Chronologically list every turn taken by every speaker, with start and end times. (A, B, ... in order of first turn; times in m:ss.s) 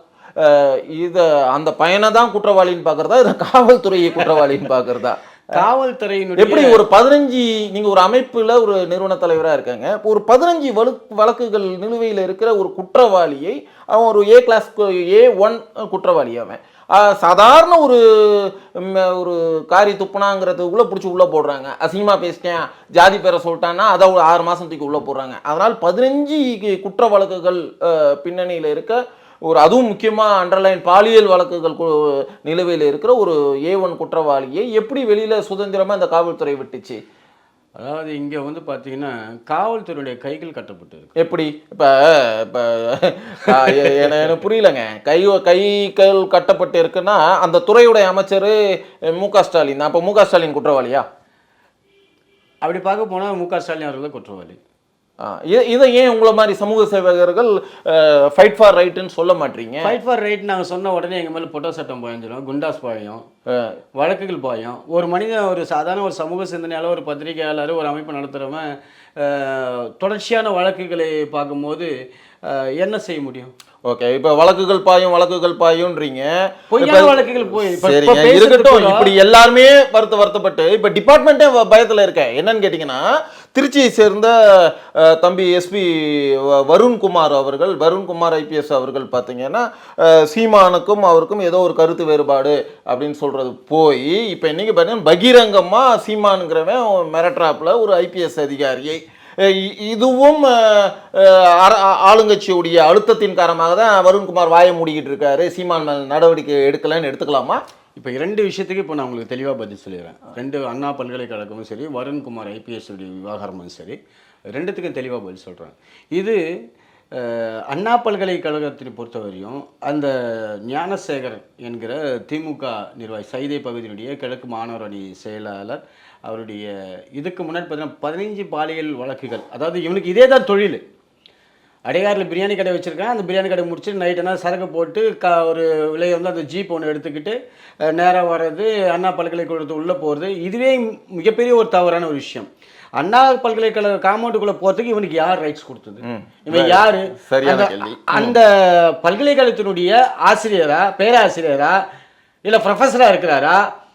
0:00.4-0:05.6 A
0:05.5-0:06.8 B
0:06.4-0:37.0 A
0:37.8-0:41.1 B
0:41.2-0:51.0 A
0:43.8-0:44.2 B
0:52.6-0:54.6 B
0:55.2-0:59.9 A
0:59.8-1:03.2 B
1:03.5-1:03.7 A
1:04.0-1:08.6 B
1:09.2-1:11.9 B
1:12.5-1:13.5 B
1:13.8-1:47.6 A
1:16.7-1:19.1 B
1:48.0-1:54.0 B
1:54.5-1:56.4 B
1:57.2-2:00.1 B
2:00.7-2:10.8 B
2:11.9-2:17.4 B
2:17.9-2:22.5 B
2:23.0-2:31.8 B
2:26.0-2:28.4 A
2:32.4-2:33.6 B